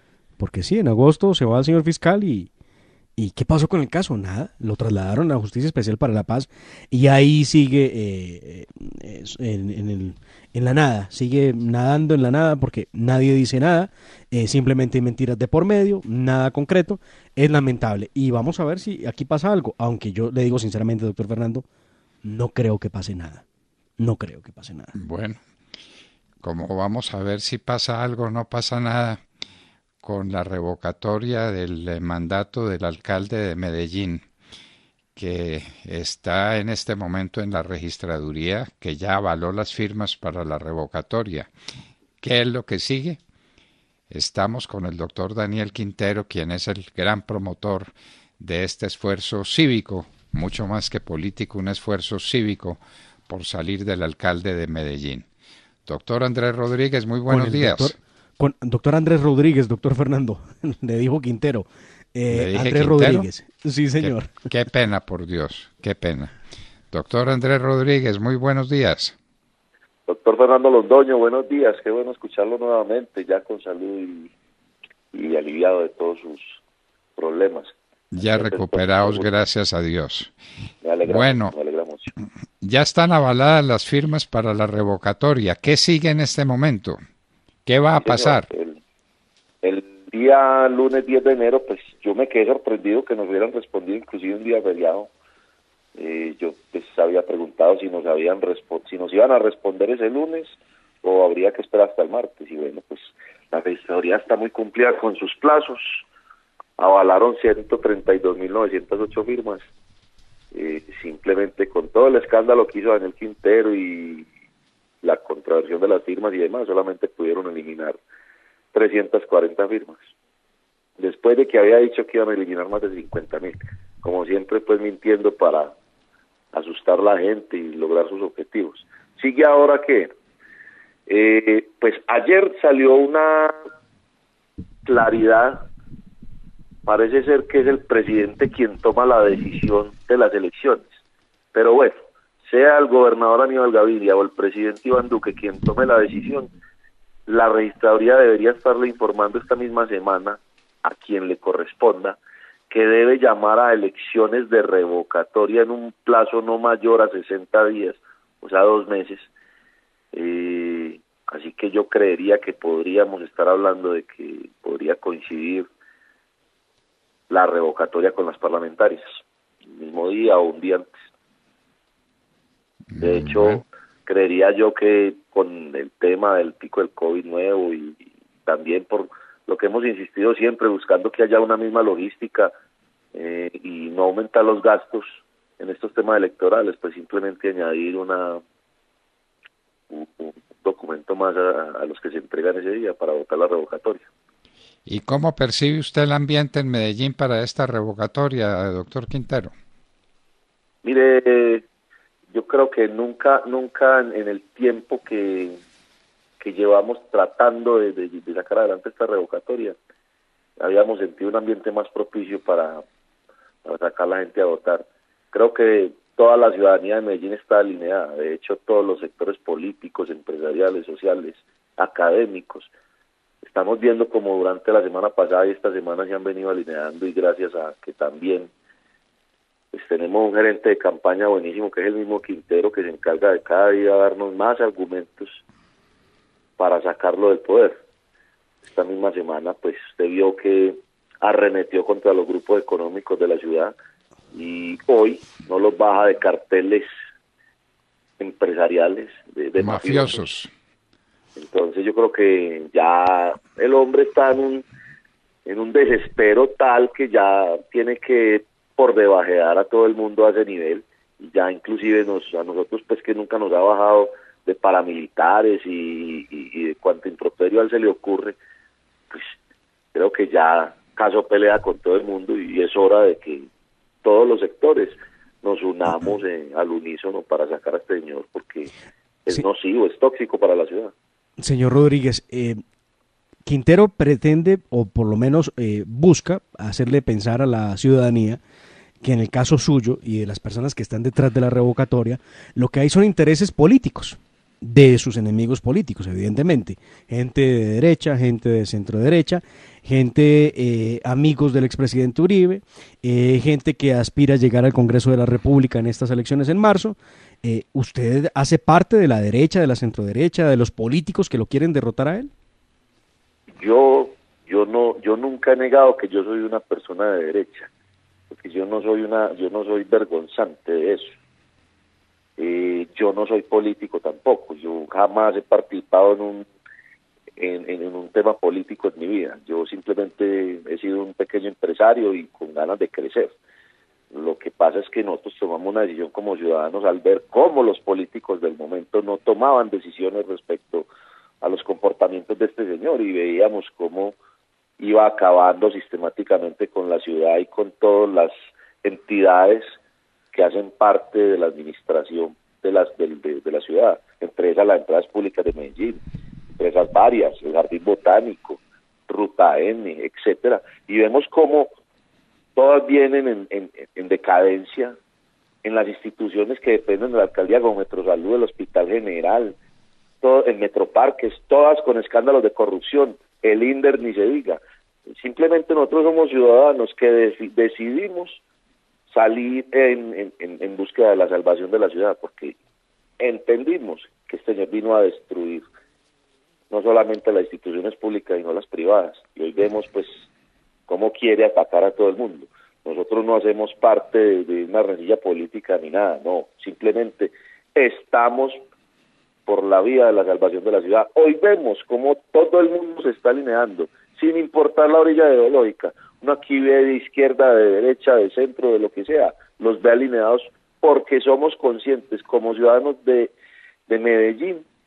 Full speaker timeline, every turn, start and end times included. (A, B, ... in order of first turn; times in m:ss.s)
0:00.4-0:02.5 A
0:03.2-0:21.6 A
0:22.2-0:23.4 A
0:24.0-0:24.9 A
0:24.9-0:25.4 B
0:26.4-0:29.2 B
0:30.0-0:34.2 B
0:35.2-0:41.5 B
0:42.2-0:43.2 B
0:44.1-0:55.2 B
0:55.8-0:58.0 B
0:57.3-1:04.4 A
1:02.3-1:03.3 B
1:04.0-1:06.3 B
1:06.9-1:09.1 B
1:10.1-1:14.3 C
1:15.1-1:16.6 C
1:17.2-1:19.4 C
1:18.1-1:20.3 B
1:20.8-1:22.1 C
1:21.0-1:21.5 B
1:22.6-1:27.0 B
1:27.6-1:28.5 B
1:28.0-1:28.8 C
1:29.6-1:35.1 C
1:36.0-1:46.0 C
1:46.8-1:49.6 C
1:50.5-1:54.3 C
1:55.0-1:58.0 C
1:58.7-2:00.0 C
2:01.0-2:05.7 C
2:06.5-2:10.1 C
2:11.1-2:13.6 C
2:14.8-2:15.7 C
2:16.8-2:21.0 C
2:21.5-2:26.5 C
2:27.3-2:32.2 C
2:32.7-2:39.3 C
2:40.1-2:45.7 C
2:47.3-2:49.0 C
2:49.7-2:50.9 C
2:52.9-2:53.6 B
2:53.0-3:02.5 C
3:03.1-3:08.4 C
3:09.9-3:14.1 C
3:14.8-3:19.5 B
3:20.8-3:21.6 C
3:22.3-3:25.6 C
3:26.4-3:29.8 C
3:30.6-3:32.8 C
3:33.6-3:42.7 C
3:43.4-3:48.5 C
3:49.7-3:55.4 C
3:56.6-3:57.8 C
3:58.7-4:03.7 C
4:04.3-4:06.9 C
4:08.2-4:10.3 C
4:09.6-4:10.5 B
4:11.4-4:14.6 C
4:15.4-4:28.4 C
4:29.9-4:33.5 C
4:34.0-4:38.7 C
4:39.2-4:40.9 C
4:41.4-4:42.6 A
4:43.4-4:48.4 A
4:49.0-5:12.3 A
5:13.6-5:17.7 C
5:18.3-5:21.1 C
5:22.4-5:26.5 C
5:27.4-5:33.3 C
5:34.1-5:40.9 C
5:41.4-5:44.2 C
5:44.8-5:49.8 C
5:50.3-5:56.0 C
5:56.5-6:01.7 C
6:02.6-6:05.0 C
6:05.6-6:09.6 C
6:10.2-6:18.4 C
6:19.1-6:22.5 C
6:23.2-6:25.6 C
6:26.7-6:30.2 C
6:30.9-6:38.6 C
6:39.4-6:53.3 C
6:53.9-6:54.6 C